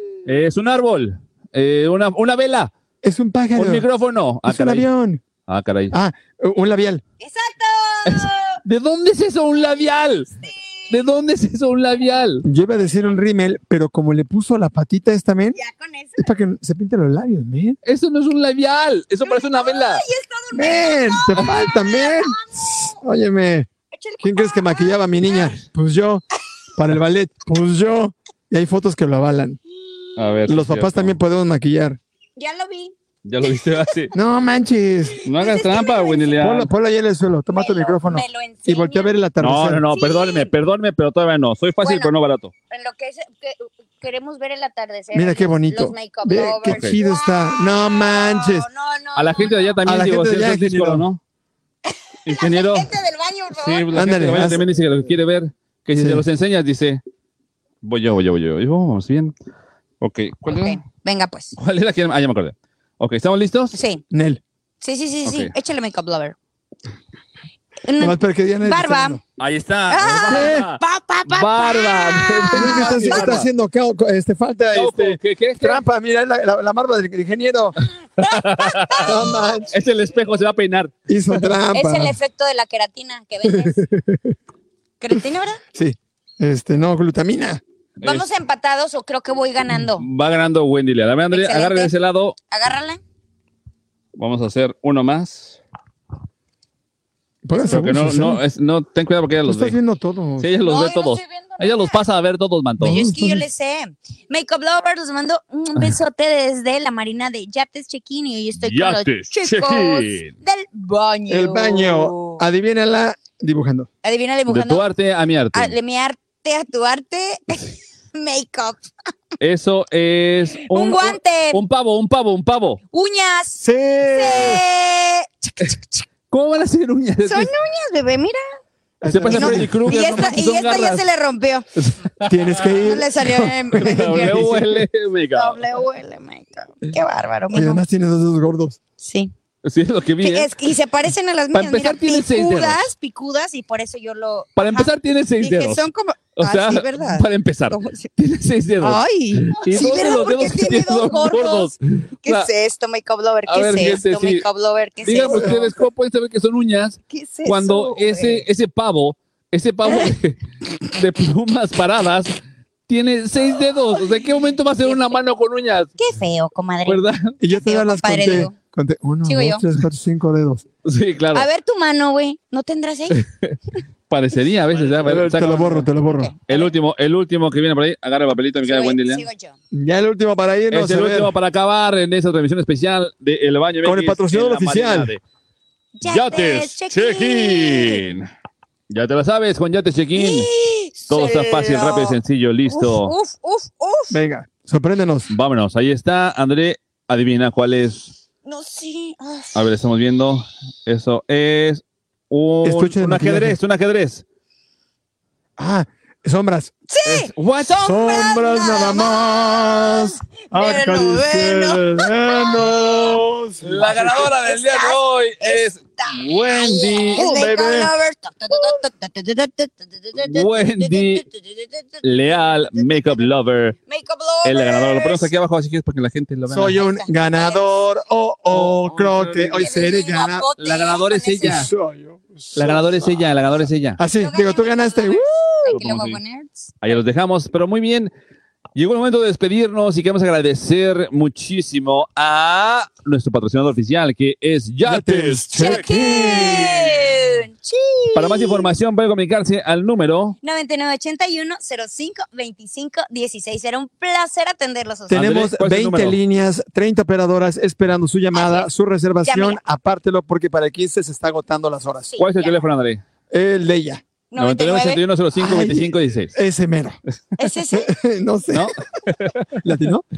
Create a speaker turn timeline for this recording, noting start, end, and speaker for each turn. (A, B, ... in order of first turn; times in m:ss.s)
0:00.3-0:02.7 A
0:03.0-0:03.9 B
0:03.6-0:04.9 A
0:04.4-0:05.2 B
0:05.5-0:06.0 A
0:05.9-0:07.0 B
0:07.2-0:08.6 C
0:08.0-0:10.3 A
0:09.6-0:11.0 C
0:10.9-0:12.4 A
0:12.4-0:15.6 B
0:15.6-0:16.3 C
0:16.2-0:17.8 B
0:17.8-0:20.0 A
0:19.2-0:23.0 C
0:20.5-0:23.7 B
0:23.9-0:25.6 C
0:24.2-0:26.2 B
0:26.8-0:29.6 B
0:30.2-0:31.2 A
0:30.5-0:32.0 B
0:32.4-0:34.0 C
0:33.2-0:34.1 A
0:34.1-0:35.2 B
0:35.2-0:36.7 A
0:35.4-0:36.4 C
0:36.4-0:39.8 B
0:37.5-0:39.1 C
0:39.4-0:42.5 A
0:39.9-0:40.5 C
0:41.8-0:42.1 C
0:42.7-0:49.7 C
0:45.1-0:48.7 B
0:46.7-0:47.0 A
0:49.2-0:51.2 A
0:49.9-0:51.1 B
0:51.8-0:53.8 C
0:52.2-0:52.9 A
0:53.5-0:57.0 A
0:53.9-0:54.6 B
0:56.0-0:56.2 B
0:57.8-0:59.4 A
1:00.0-1:00.8 A
1:00.5-1:01.6 C
1:01.6-1:03.8 A
1:03.7-1:04.0 C
1:04.1-1:04.4 B
1:04.8-1:06.4 C
1:05.2-1:05.5 A
1:07.8-1:09.2 C
1:08.0-1:09.2 B
1:09.4-1:13.5 A
1:09.9-1:13.4 C
1:10.2-1:10.7 B
1:12.5-1:17.8 B
1:14.7-1:15.8 A
1:18.2-1:19.2 A
1:18.2-1:19.5 C
1:19.0-1:19.7 B
1:19.7-1:20.9 A
1:21.1-1:22.2 B
1:21.7-1:23.8 C
1:23.4-1:24.4 B
1:25.0-1:25.6 C
1:25.7-1:27.6 B
1:28.0-1:28.3 A
1:28.0-1:30.1 C
1:30.0-1:32.4 A
1:31.3-1:31.9 C
1:32.5-1:33.0 C
1:34.2-1:35.6 A
1:37.4-1:38.4 B
1:37.7-1:39.8 A
1:39.5-1:40.5 B
1:40.4-1:43.1 A
1:40.6-1:42.0 C
1:42.8-1:43.5 B
1:42.8-1:52.4 C
1:48.6-1:50.3 A
1:51.3-1:53.9 B
1:54.0-1:54.9 C
1:54.5-1:55.8 A
1:55.5-1:58.8 C
1:59.4-2:02.8 A
2:00.7-2:01.6 C
2:02.9-2:06.1 C
2:03.6-2:04.6 B
2:06.3-2:07.5 A
2:07.3-2:08.4 C
2:09.0-2:09.8 B
2:09.1-2:11.1 A
2:09.3-2:11.7 C
2:11.8-2:12.8 A
2:12.3-2:14.6 B
2:12.8-2:14.8 C
2:13.7-2:15.6 A
2:15.4-2:17.8 C
2:17.5-2:18.8 B
2:19.0-2:19.3 C
2:19.6-2:20.5 A
2:20.2-2:28.1 C
2:21.5-2:22.9 A
2:24.6-2:25.8 A
2:26.4-2:32.5 A
2:28.8-2:35.8 C
2:33.5-2:34.4 A
2:35.0-2:46.0 A
2:37.1-2:38.5 C
2:44.8-2:45.2 C
2:46.0-2:48.6 C
2:46.9-2:47.4 A
2:47.4-2:50.6 B
2:49.2-2:49.6 C
2:50.8-2:51.5 A
2:51.3-2:53.2 C
2:53.1-2:55.9 A
2:55.0-2:56.3 B
2:56.0-2:56.7 C
2:56.5-2:59.2 A
2:58.6-2:59.6 C
2:59.7-3:01.3 B
3:00.7-3:05.2 A
3:03.8-3:05.1 B
3:06.0-3:08.0 C
3:06.0-3:08.3 A
3:08.9-3:10.5 A
3:10.2-3:14.2 C
3:11.1-3:13.1 A
3:14.1-3:15.3 B
3:15.3-3:18.2 A
3:18.4-3:19.6 C
3:19.6-3:24.2 A
3:22.6-3:23.6 B
3:25.6-3:26.7 B
3:26.9-3:33.2 C
3:27.0-3:27.8 A
3:27.8-3:34.0 B
3:33.6-3:37.5 A
3:33.9-3:43.2 C
3:37.1-3:37.9 B
3:40.2-3:41.2 A
3:42.0-3:43.8 A
3:43.9-3:45.3 C
3:44.4-3:46.8 A
3:46.5-3:50.5 B
3:46.6-3:47.7 C
3:48.5-3:49.7 A
3:49.5-3:51.7 C
3:50.6-3:51.7 A
3:51.4-3:53.2 B
3:52.5-3:54.0 A
3:54.0-3:55.8 B
3:54.2-3:56.8 C
3:55.7-3:56.2 A
3:56.8-3:58.1 A
3:58.8-4:07.1 A
4:04.8-4:06.9 B
4:05.5-4:08.7 C
4:08.1-4:10.4 A
4:10.4-4:15.2 C
4:15.1-4:22.2 B
4:15.1-4:16.2 A
4:18.3-4:18.7 C
4:19.2-4:19.6 C
4:22.1-4:22.6 C
4:22.2-4:23.0 A
4:23.3-4:24.0 B
4:24.3-4:25.0 C
4:24.4-4:26.4 A
4:25.4-4:27.0 B
4:27.4-4:27.9 C
4:27.7-4:28.7 B
4:28.5-4:29.6 A
4:29.6-4:30.0 B